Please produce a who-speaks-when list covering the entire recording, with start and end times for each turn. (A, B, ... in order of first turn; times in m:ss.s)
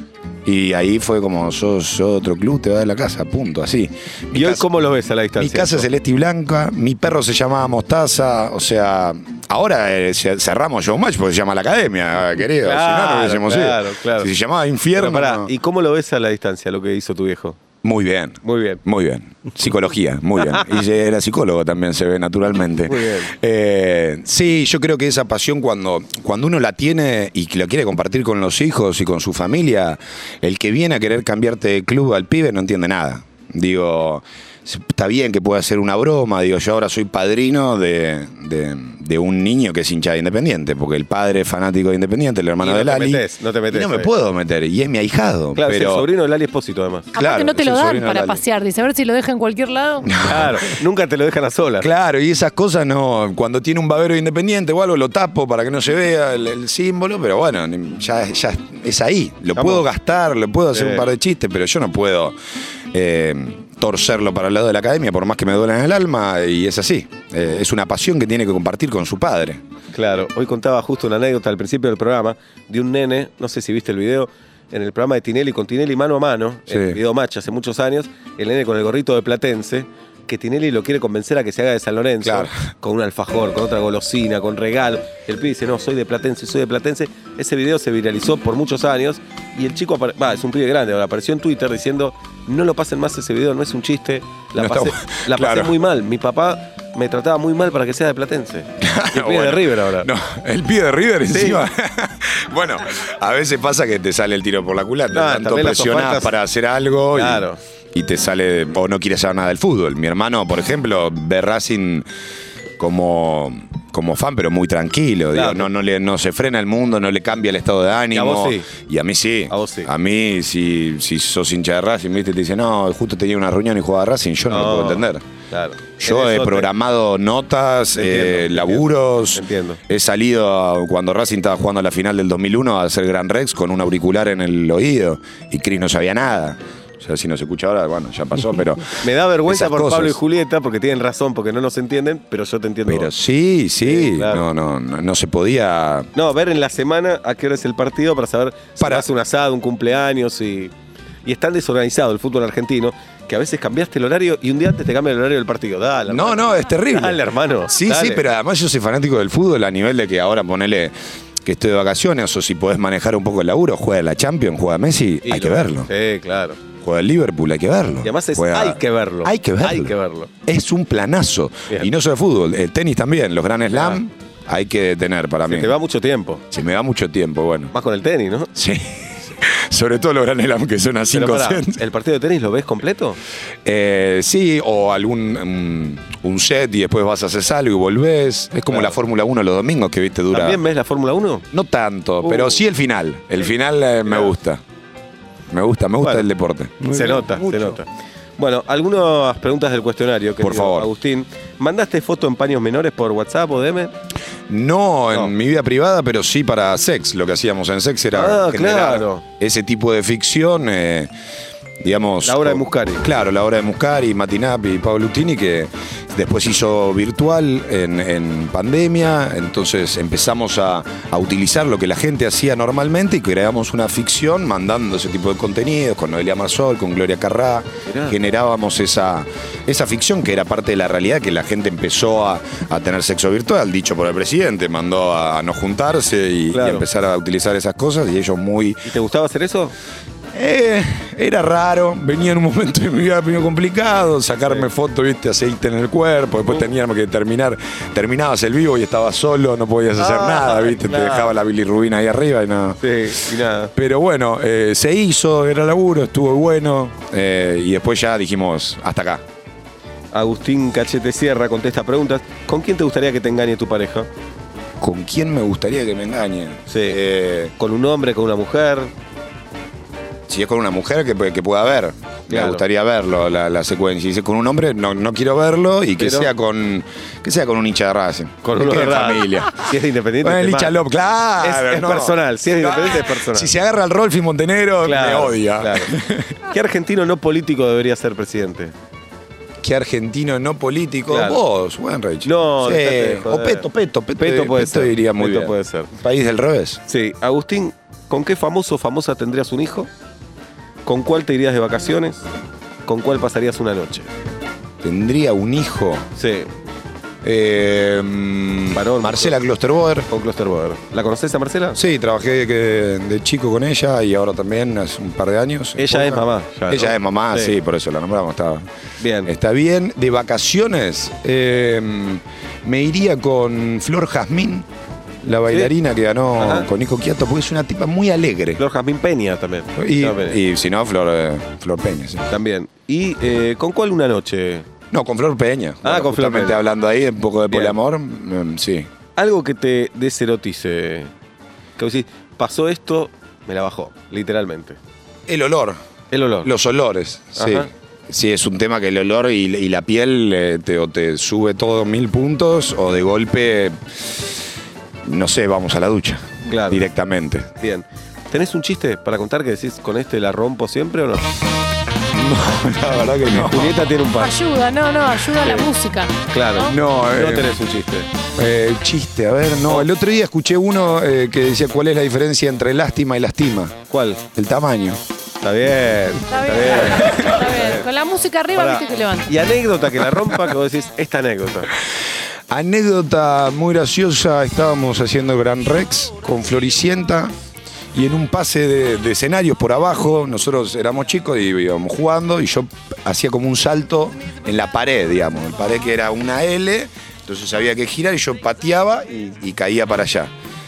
0:00.4-0:04.6 A
0:04.3-0:05.9 B
0:05.4-0:15.5 A
0:12.6-0:14.3 B
0:14.9-0:17.6 B
0:17.8-0:46.1 A
0:18.4-0:18.8 B
0:20.4-0:20.8 B
0:22.8-0:23.3 B
0:42.6-0:44.1 B
0:45.5-0:47.1 B
0:47.1-0:50.1 C
0:47.2-0:48.4 A
0:50.0-0:50.6 A
0:50.2-0:51.9 B
0:51.8-1:02.4 A
0:59.5-0:59.8 B
1:00.7-1:01.1 B
1:02.9-1:09.6 A
1:09.9-1:40.1 B
1:16.7-1:17.0 A
1:22.2-1:22.5 A
1:34.6-1:35.7 A
1:38.8-1:52.1 A
1:41.2-1:41.6 B
1:45.1-1:46.3 B
1:47.1-1:47.6 B
1:52.8-2:05.2 A
1:55.3-1:55.7 B
1:58.1-1:58.7 B
1:59.5-1:59.9 B
2:04.5-2:06.7 B
2:06.0-2:20.2 A
2:07.9-2:09.8 B
2:19.0-2:23.1 B
2:22.8-2:26.1 A
2:23.8-2:24.4 B
2:26.1-2:30.7 B
2:28.8-2:29.0 A
2:31.2-2:38.2 B
2:36.1-2:40.9 A
2:41.4-2:45.9 A
2:45.2-2:46.6 B
2:46.8-2:49.9 A
2:48.0-2:50.3 B
2:50.4-2:55.7 A
2:53.7-2:54.0 B
2:55.4-2:56.4 B
2:56.5-2:57.7 A
2:57.7-2:58.5 B
2:58.5-3:01.8 A
3:01.1-3:03.2 B
3:03.6-3:10.6 A
3:08.7-3:09.0 B
3:10.3-3:11.4 B
3:11.5-3:14.6 A
3:12.2-3:12.6 B
3:14.0-3:14.3 B
3:15.5-3:17.8 A
3:16.0-3:16.3 B
3:16.8-3:17.9 B
3:18.4-3:23.9 B
3:20.4-3:20.9 A
3:24.5-3:31.1 A
3:28.1-3:29.2 B
3:31.8-3:58.9 A
3:32.2-3:33.1 B
3:47.9-3:48.2 B
3:56.5-3:56.8 B
3:58.8-3:59.7 B
4:00.3-4:12.8 A
4:10.0-4:11.4 B
4:12.8-4:13.7 B
4:13.7-4:19.2 A
4:20.1-4:24.1 B
4:24.8-4:27.5 A
4:26.7-4:27.0 B
4:27.6-4:28.9 B
4:30.3-4:46.4 A
4:32.3-4:32.6 B
4:36.0-4:36.3 B
4:38.4-4:40.8 B
4:41.4-4:43.5 B
4:44.8-4:45.9 B
4:46.4-4:48.7 B
4:49.6-4:56.8 A
4:51.1-4:51.4 B
4:52.2-4:53.6 B
4:54.2-4:55.9 B
4:56.8-4:59.9 B
5:00.8-5:02.2 B
5:02.8-5:04.1 B
5:04.8-5:06.0 A
5:06.1-5:06.5 B
5:07.2-5:10.1 A
5:08.7-5:09.4 B
5:10.1-5:11.8 B
5:11.7-5:18.6 A
5:15.8-5:17.6 B
5:19.0-5:19.3 B
5:19.2-5:24.7 A
5:25.2-5:28.6 A
5:25.5-5:25.7 B
5:26.4-5:26.7 B
5:28.6-5:30.4 B
5:29.8-5:32.2 A
5:32.3-5:34.6 B
5:34.9-5:38.9 A
5:35.8-5:36.6 B
5:37.5-5:37.8 B
5:39.2-5:41.1 B
5:41.8-5:44.8 B
5:45.3-5:45.8 A
5:46.1-5:46.5 B
5:46.4-5:53.8 A
5:47.4-5:47.7 B
5:55.0-5:57.5 A
5:56.5-5:56.8 B
5:57.6-6:01.2 B
6:02.1-6:03.9 A
6:03.3-6:04.4 B
6:04.1-6:06.7 C
6:05.4-6:05.7 B
6:06.3-6:08.1 B
6:06.6-6:07.6 A
6:08.4-6:13.7 A
6:13.9-6:14.2 B
6:14.3-6:15.0 A
6:15.4-6:17.9 B
6:16.3-6:19.3 C
6:18.5-6:21.7 B
6:22.5-6:27.3 A
6:27.9-6:40.3 A